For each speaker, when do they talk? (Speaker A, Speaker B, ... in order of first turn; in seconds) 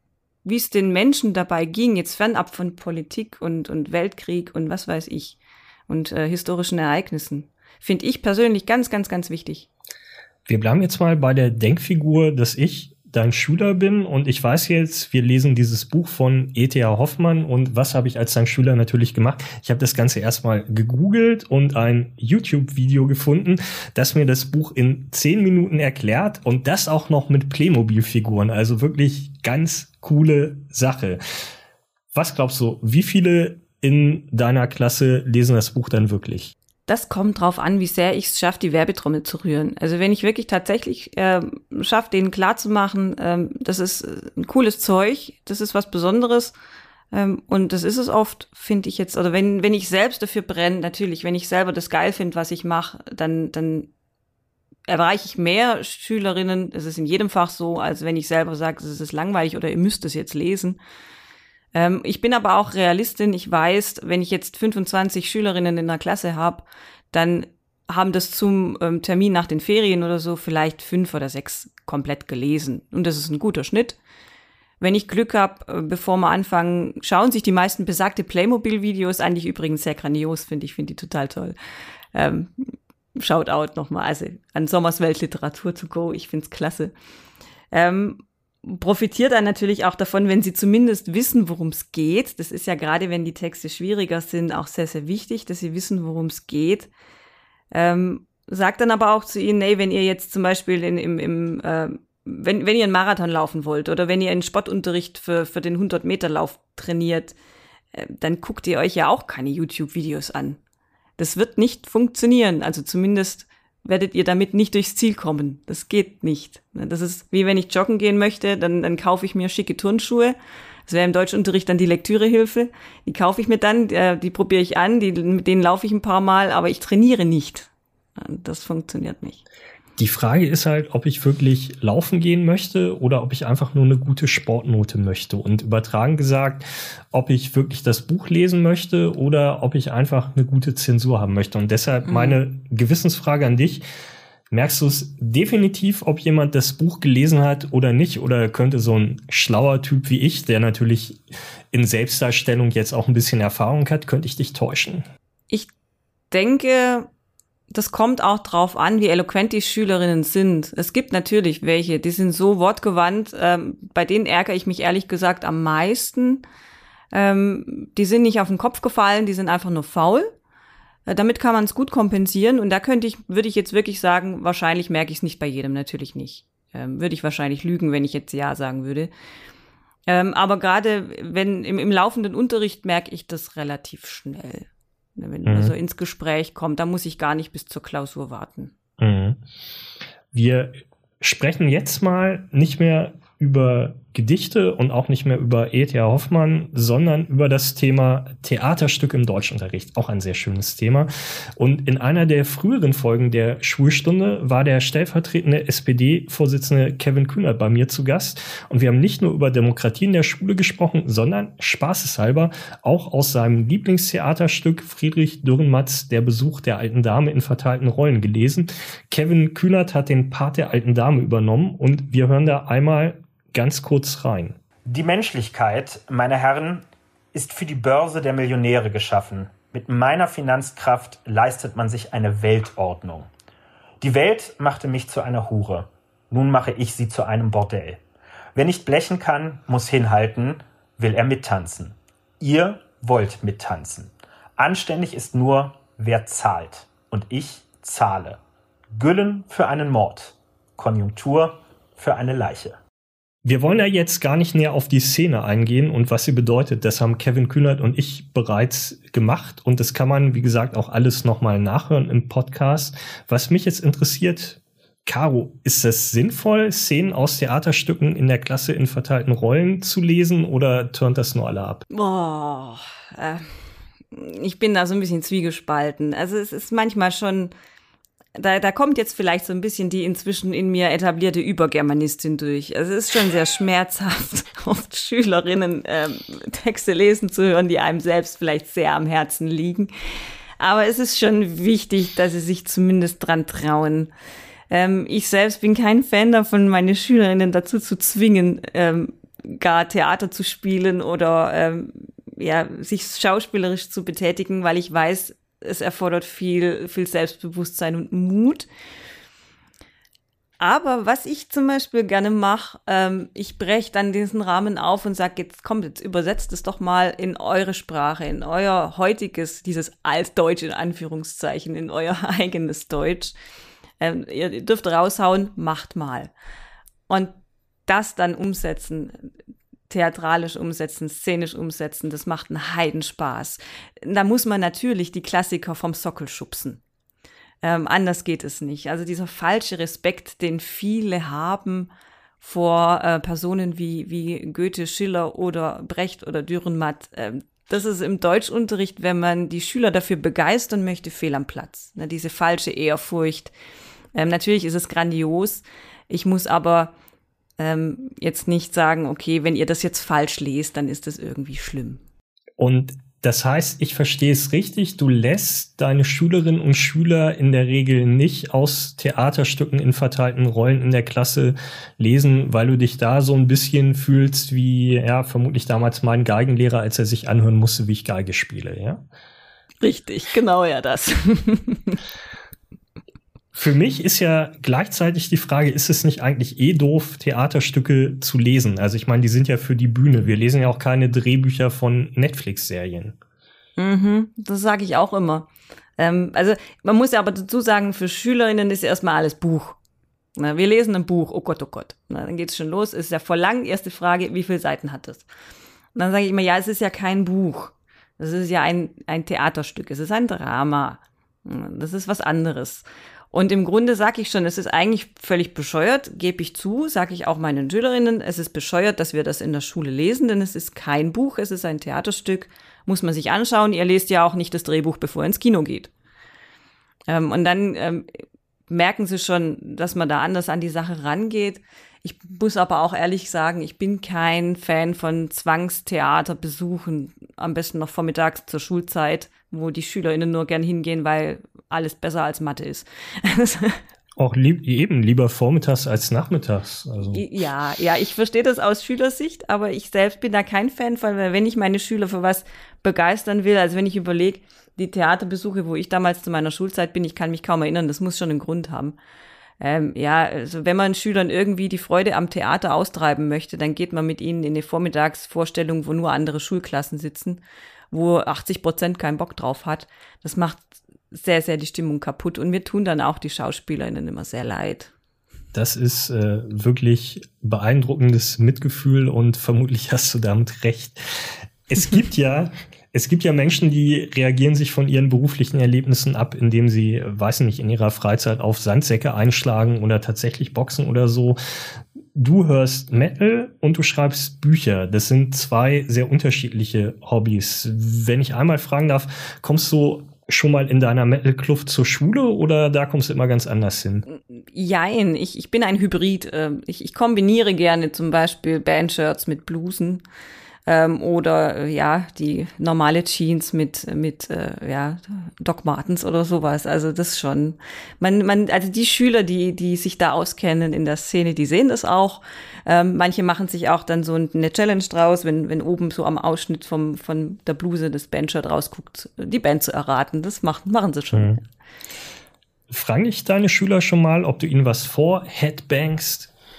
Speaker A: 0.5-9.7, 36.9-46.5, 47.1-53.9, 54.9-60.8, 61.7-74.0, 74.8-81.5, 82.1-86.9, 87.7-96.9, 97.7-107.3, 107.9-110.6, 111.2-120.4, 120.9-129.4, 142.1-142.4, 156.3-157.1, 157.7-166.4, 167.1-170.3, 171.1-179.1, 180.1-184.7, 185.2-188.7, 271.9-273.5, 274.1-277.5, 278.4-289.9, 290.6-294.1, 294.7-308.7, 310.6-323.3, 324.0-326.3, 327.1-327.4, 327.9-329.2, 329.9-336.8, 337.6-341.9, 342.4-353.5, 354.1-356.9, 357.6-362.0, 379.8-382.0, 393.8-395.5, 396.0-399.8, 400.4-405.2, 405.9-425.9, 427.1-428.1, 428.7-443.8, 447.1-459.0, 459.6-474.9, 504.1-510.0, 510.7-531.4
Speaker B: 10.5-31.2, 32.1-36.5, 130.0-143.8, 144.5-155.1, 185.5-185.7, 189.0-189.4, 190.3-224.6, 253.4-271.9, 362.6-379.0, 383.6-393.2, 444.2-447.2, 475.5-491.4, 492.1-504.1, 531.1-531.4, 532.7-536.3
Speaker C: 224.8-233.3, 234.0-238.0, 238.6-248.4, 248.9-252.8